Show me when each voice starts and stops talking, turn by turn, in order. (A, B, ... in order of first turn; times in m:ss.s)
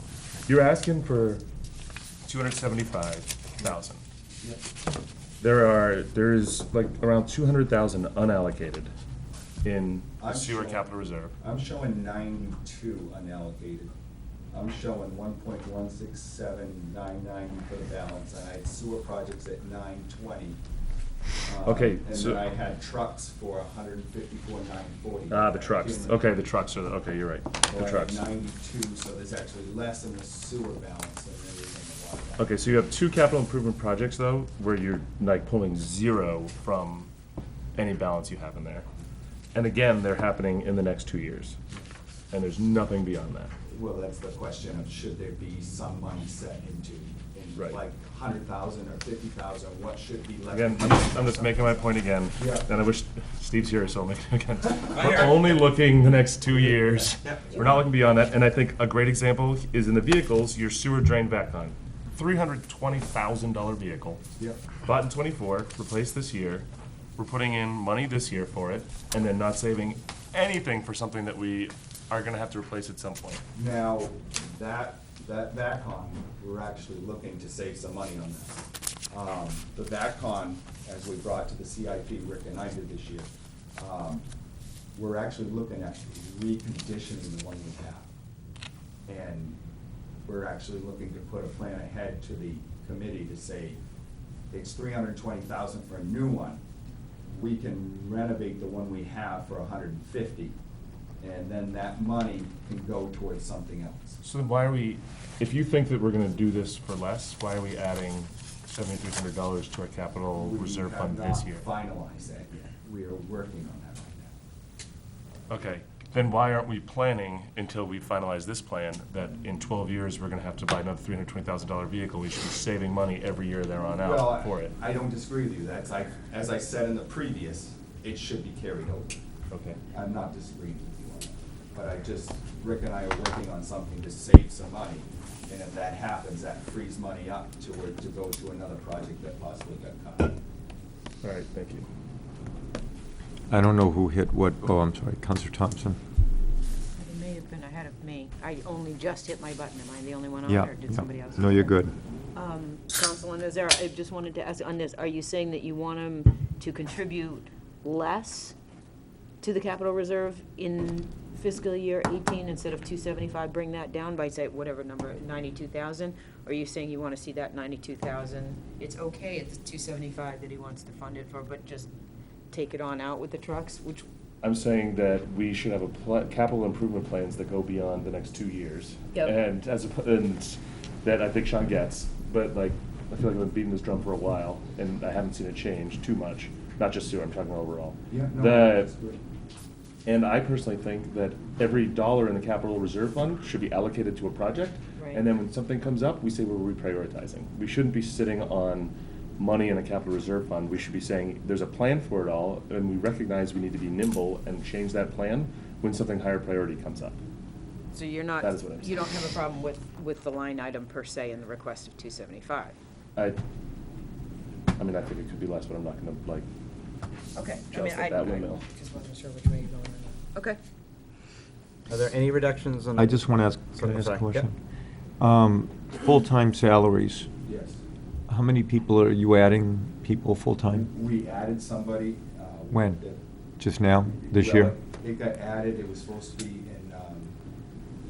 0:00.4-0:01.4 A
0:02.2-0:04.0 A
0:05.4-0:08.9 A
0:09.6-0:11.3 A
0:10.2-0:13.9 B
0:14.5-0:20.6 B
0:21.4-0:26.3 B
0:21.6-0:22.4 A
0:25.3-0:28.3 A
0:27.7-0:32.5 B
0:32.4-0:37.1 A
0:37.8-0:38.9 A
0:39.5-0:41.6 A
0:42.3-0:43.5 A
0:43.7-0:52.7 B
0:50.5-1:04.2 A
0:54.9-0:55.5 C
1:04.4-1:04.6 B
1:04.8-1:13.4 A
1:13.5-1:24.2 B
1:24.9-1:28.1 B
1:29.1-1:29.6 B
1:30.2-1:33.8 B
1:34.5-1:36.6 B
1:37.3-1:40.6 B
1:41.2-1:44.2 B
1:44.2-1:51.7 A
1:50.3-1:54.4 B
1:55.5-2:04.7 A
2:04.0-2:09.1 B
2:09.5-2:09.8 A
2:09.9-2:20.4 B
2:21.2-2:21.9 A
2:23.5-2:26.0 D
2:26.9-2:31.8 E
2:30.4-2:31.9 D
2:32.3-2:38.5 E
2:39.4-2:51.9 E
2:52.5-2:54.0 E
2:54.4-3:08.9 A
3:08.1-3:09.2 B
3:10.0-3:27.2 A
3:15.0-3:15.2 E
3:27.9-3:32.8 E
3:28.4-3:29.0 A
3:34.8-3:36.5 A
3:37.3-3:40.6 E
3:37.7-3:38.6 A
3:41.9-3:44.5 C
3:43.0-3:44.5 D
3:45.2-3:47.3 D
3:47.4-3:47.8 B
3:48.3-3:50.9 D
3:50.7-3:53.2 B
3:52.7-3:53.0 D
3:53.6-3:54.7 D
3:54.3-3:57.4 B